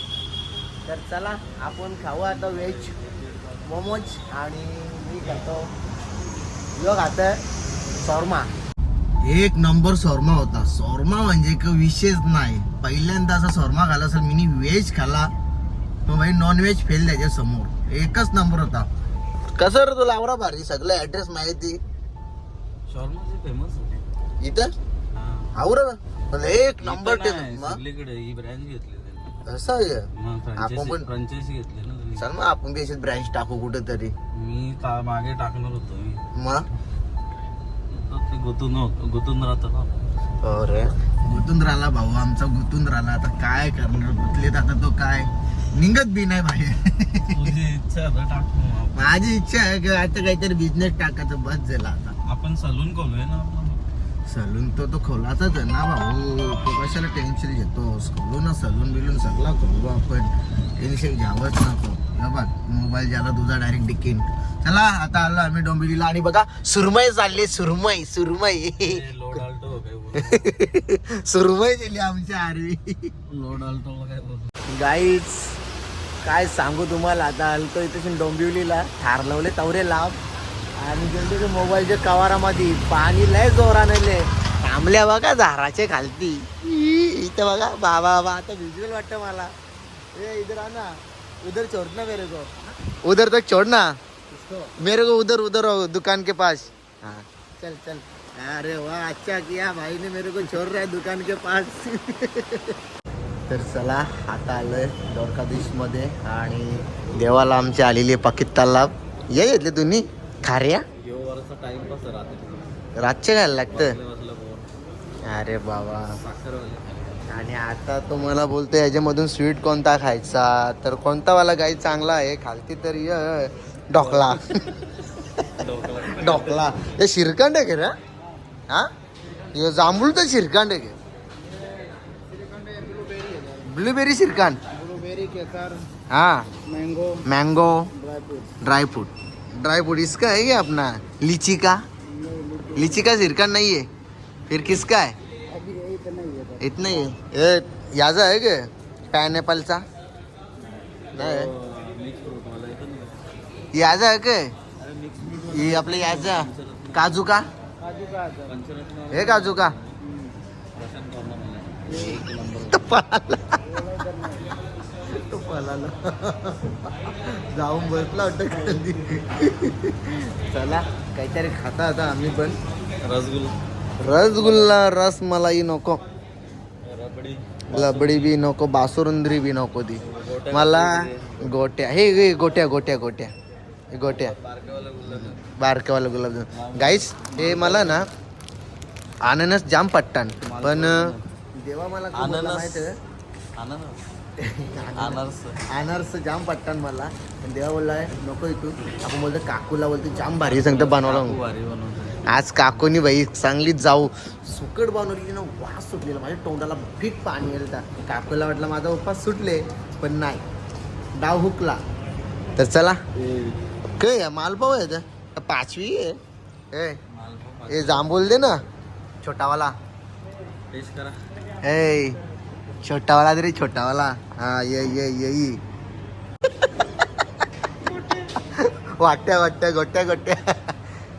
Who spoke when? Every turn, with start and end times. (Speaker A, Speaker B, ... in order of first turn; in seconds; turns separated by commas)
Speaker A: 0.9-2.9, Speaker B: 2.2-4.0, Speaker A: 3.6-5.7, Speaker A: 6.8-7.4, Speaker A: 8.0-8.5, Speaker A: 9.2-15.3, Speaker A: 16.1-18.9, Speaker A: 19.6-21.8, Speaker B: 22.9-24.1, Speaker A: 24.4-24.7, Speaker B: 25.1-25.6, Speaker A: 25.6-27.8, Speaker B: 26.8-29.4, Speaker A: 29.5-31.1, Speaker B: 30.1-32.3, Speaker A: 32.2-34.1, Speaker B: 34.3-36.2, Speaker A: 36.4-36.6, Speaker B: 37.9-40.0, Speaker A: 40.4-47.5, Speaker B: 47.2-49.2, Speaker A: 49.0-52.1, Speaker B: 52.2-53.8, Speaker A: 54.3-69.0, Speaker B: 68.8-70.5, Speaker A: 70.1-73.1, Speaker B: 73.3-74.5, Speaker A: 74.7-75.6, Speaker A: 76.2-80.2, Speaker A: 80.8-89.5, Speaker A: 90.1-102.8, Speaker A: 103.5-110.8, Speaker B: 111.0-112.8, Speaker A: 113.0-114.0, Speaker B: 113.7-114.7, Speaker A: 115.2-116.2, Speaker B: 116.1-117.3, Speaker A: 117.3-124.6, Speaker B: 123.9-125.0, Speaker B: 125.6-126.9, Speaker A: 125.6-128.0, Speaker A: 129.5-131.0, Speaker A: 133.6-134.6, Speaker C: 134.9-135.8, Speaker A: 136.1-136.5, Speaker C: 136.7-137.2, Speaker A: 137.2-137.9, Speaker C: 138.0-138.5, Speaker A: 138.6-141.8, Speaker C: 142.2-142.8, Speaker A: 142.8-143.9, Speaker A: 144.5-145.2, Speaker C: 145.5-146.8, Speaker A: 146.6-149.8, Speaker B: 151.1-153.2, Speaker A: 151.2-151.5, Speaker A: 153.7-154.5, Speaker B: 154.8-157.2, Speaker A: 155.5-157.5, Speaker C: 157.9-158.5, Speaker B: 158.4-160.0, Speaker A: 159.1-159.8, Speaker B: 160.8-162.8, Speaker A: 162.7-163.7, Speaker C: 163.8-164.4, Speaker A: 165.1-172.6, Speaker B: 173.0-173.6, Speaker A: 174.0-176.0, Speaker B: 174.3-174.8, Speaker B: 176.8-178.4, Speaker A: 177.7-183.3, Speaker B: 180.0-181.5, Speaker A: 183.9-184.3, Speaker B: 184.1-185.4, Speaker A: 185.1-188.1, Speaker B: 186.5-188.1, Speaker A: 189.2-192.9, Speaker B: 190.4-191.3, Speaker B: 192.1-192.9, Speaker B: 193.6-194.0, Speaker A: 194.4-201.4, Speaker B: 195.0-195.6, Speaker B: 200.4-202.3, Speaker A: 202.2-210.4, Speaker A: 211.2-211.8, Speaker A: 212.6-213.0, Speaker B: 213.1-213.8, Speaker A: 214.0-216.2, Speaker A: 216.7-217.0, Speaker B: 217.1-218.5, Speaker A: 217.7-218.6, Speaker A: 219.2-219.8, Speaker B: 220.7-221.2, Speaker A: 221.6-222.2, Speaker A: 222.8-225.6, Speaker A: 228.5-230.8